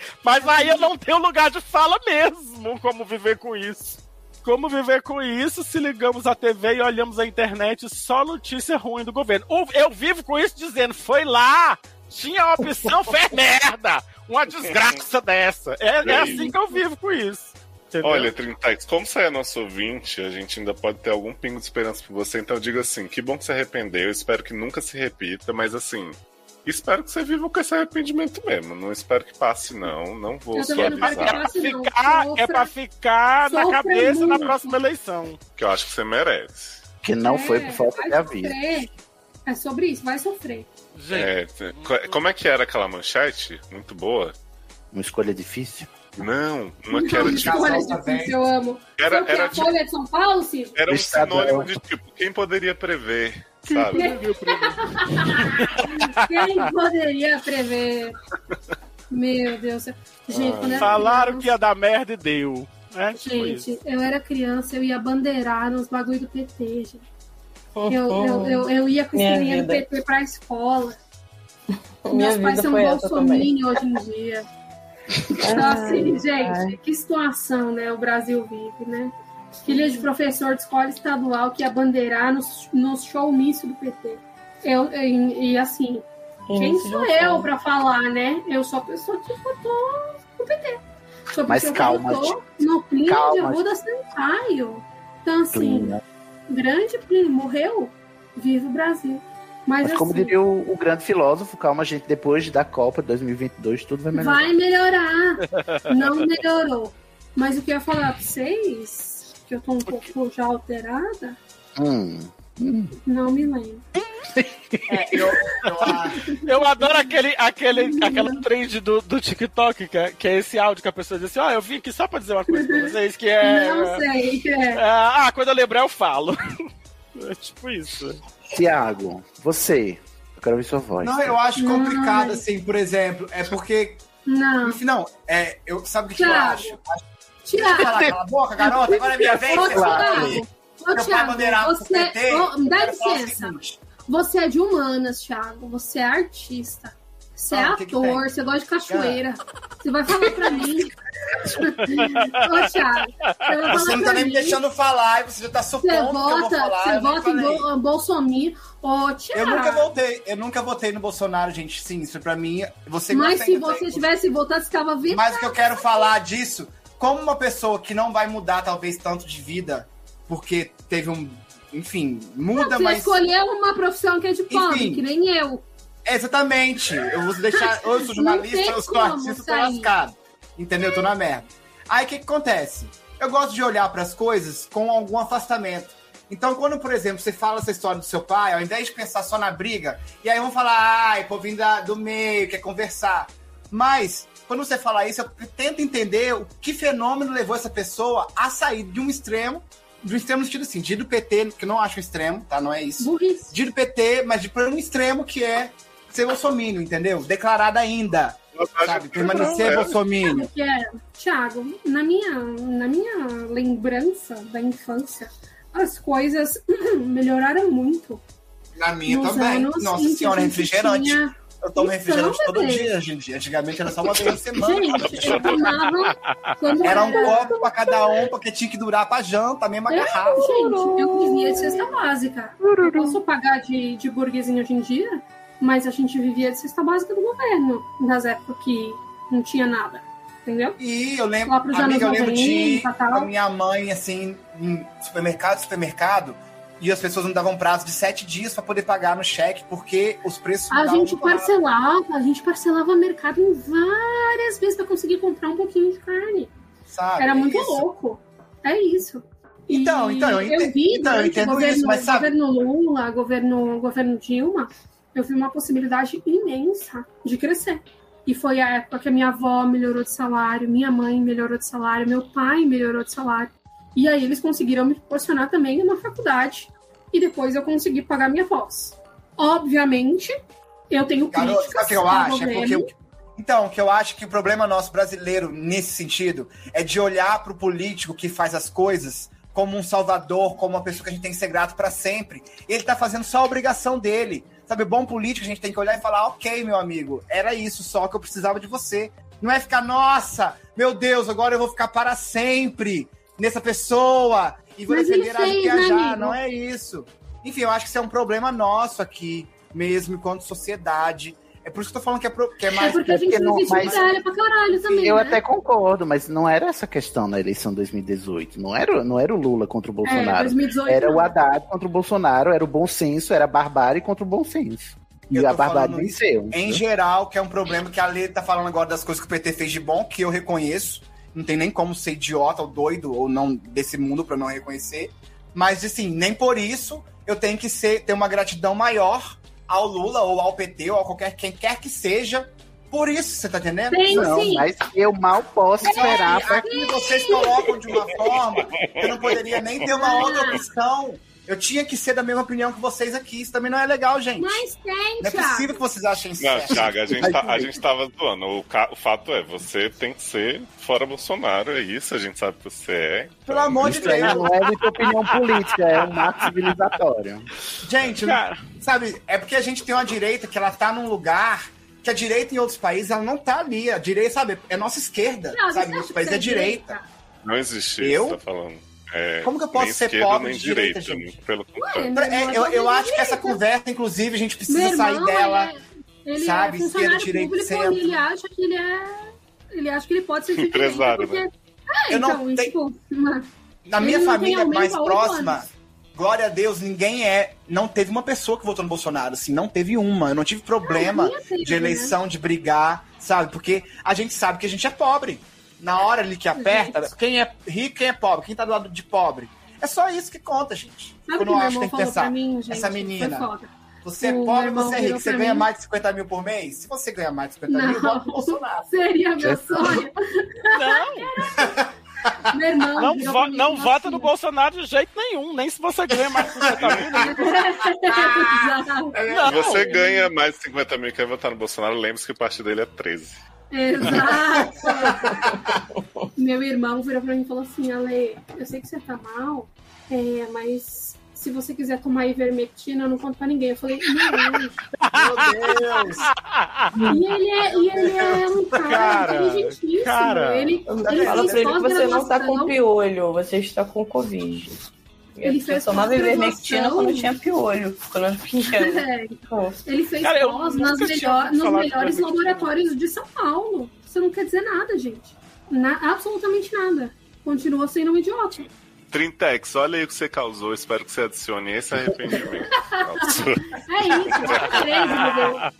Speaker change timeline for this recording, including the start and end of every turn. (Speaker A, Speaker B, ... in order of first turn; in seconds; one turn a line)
Speaker A: 0.2-18.3
Speaker B: 0.4-0.8
Speaker C: 16.0-16.5
Speaker C: 18.0-31.4
Speaker B: 30.6-32.7
Speaker A: 30.7-35.4
Speaker B: 33.5-34.8
Speaker C: 35.6-36.8
Speaker D: 37.0-38.6
Speaker B: 37.2-38.9
Speaker B: 39.5-40.7
Speaker A: 41.0-42.2
Speaker C: 41.1-44.4
Speaker D: 44.9-46.2
Speaker C: 46.2-47.9
Speaker B: 46.9-50.7
Speaker E: 47.1-48.5
Speaker C: 49.0-49.7
Speaker C: 50.8-54.1
Speaker D: 50.9-51.7
Speaker B: 53.7-58.2
Speaker A: 53.9-56.6
Speaker B: 59.1-61.5
Speaker C: 60.3-61.0
Speaker A: 60.8-63.6
Speaker B: 63.2-67.0
Speaker F: 67.8-69.8
Speaker B: 67.9-71.0
Speaker F: 71.7-73.5
Speaker B: 72.1-74.5
Speaker F: 75.3-76.8
Speaker B: 75.5-79.1
Speaker F: 79.7-80.1
Speaker B: 79.7-100.4
Speaker F: 86.5-87.5
Speaker D: 91.5-92.4
Speaker D: 93.0-93.7
Speaker D: 95.5-96.0
Speaker D: 99.8-104.5
Speaker B: 104.1-111.4
Speaker A: 105.5-105.9
Speaker D: 111.8-113.0
Speaker B: 113.1-113.8
Speaker D: 114.3-115.3
Speaker E: 114.9-116.2
Speaker A: 115.8-124.0
Speaker B: 116.3-117.1
Speaker B: 117.7-118.4
Speaker B: 122.5-124.8
Speaker A: 124.7-126.4
Speaker A: 127.2-128.2
Speaker D: 128.5-131.4
Speaker E: 131.0-134.0
Speaker B: 131.6-132.4
Speaker B: 134.3-134.8
Speaker E: 134.6-137.0
Speaker B: 136.2-136.8
Speaker B: 137.4-138.0
Speaker E: 137.5-143.8
Speaker D: 137.8-138.1
Speaker D: 138.6-140.4
Speaker B: 139.2-154.6
Speaker E: 147.5-148.3
Speaker E: 148.9-149.2
Speaker A: 151.8-152.5
Speaker A: 153.2-153.6
Speaker E: 153.7-157.7
Speaker B: 155.8-159.9
Speaker E: 159.3-164.1
Speaker B: 163.1-166.1
Speaker E: 165.1-173.2
Speaker B: 172.6-175.7
Speaker E: 174.5-175.0
Speaker E: 176.1-210.5
Speaker B: 177.5-179.9
Speaker B: 180.8-181.1
Speaker B: 203.0-203.6
Speaker C: 208.6-209.9
Speaker A: 209.3-209.7
Speaker B: 210.2-218.2
Speaker E: 218.8-225.7
Speaker B: 219.1-222.9
Speaker B: 224.5-227.7
Speaker C: 224.9-225.8
Speaker E: 226.8-230.5
Speaker F: 227.1-227.6
Speaker B: 229.9-240.8
Speaker F: 230.3-232.0
Speaker E: 240.8-251.5
Speaker B: 241.5-243.3
Speaker B: 250.7-256.5
Speaker E: 256.9-257.9
Speaker B: 257.2-280.4
Speaker E: 259.7-262.3
Speaker B: 280.9-282.9
Speaker E: 281.3-313.1
Speaker B: 304.9-306.4
Speaker B: 312.7-315.4
Speaker D: 312.8-314.0
Speaker E: 313.6-314.2
Speaker D: 314.9-326.8
Speaker B: 320.0-321.3
Speaker E: 325.3-344.4
Speaker B: 343.9-344.7
Speaker D: 344.1-346.6
Speaker E: 345.8-354.6
Speaker B: 345.8-347.8
Speaker C: 348.8-349.6
Speaker B: 349.9-350.7
Speaker B: 354.4-355.8
Speaker E: 355.2-357.4
Speaker C: 356.4-363.8
Speaker D: 357.2-357.8
Speaker E: 363.5-364.6
Speaker D: 363.8-367.5
Speaker A: 365.0-366.2
Speaker E: 367.8-377.0
Speaker A: 368.2-368.6
Speaker B: 375.5-377.0
Speaker C: 377.4-382.1
Speaker E: 378.0-378.4
Speaker E: 379.4-381.3
Speaker B: 381.8-383.6
Speaker E: 382.1-385.7
Speaker B: 384.7-393.5
Speaker E: 386.4-388.1
Speaker C: 390.5-391.5
Speaker E: 392.1-392.7
Speaker E: 393.9-413.5
Speaker B: 394.0-395.6
Speaker B: 400.8-402.2
Speaker B: 406.6-407.1
Speaker B: 411.3-415.7
Speaker E: 414.0-418.9
Speaker B: 417.7-421.8
Speaker D: 419.4-420.1
Speaker A: 420.7-421.3
Speaker E: 421.5-422.4
Speaker B: 422.5-424.3
Speaker A: 423.0-427.6
Speaker E: 426.3-427.1
Speaker B: 427.2-429.1
Speaker E: 428.1-429.9
Speaker A: 429.3-430.2
Speaker C: 429.4-433.4
Speaker B: 433.7-435.5
Speaker E: 434.5-435.4
Speaker F: 436.0-436.2
Speaker B: 436.4-444.8
Speaker A: 445.0-446.9
Speaker E: 445.1-446.3
Speaker B: 447.1-452.8
Speaker E: 447.6-449.2
Speaker A: 448.8-450.8
Speaker F: 450.9-454.8
Speaker E: 451.0-451.8
Speaker F: 455.4-459.8
Speaker B: 455.4-457.3
Speaker B: 458.7-468.7
Speaker A: 460.2-462.7
Speaker C: 469.1-475.5
Speaker B: 473.2-475.7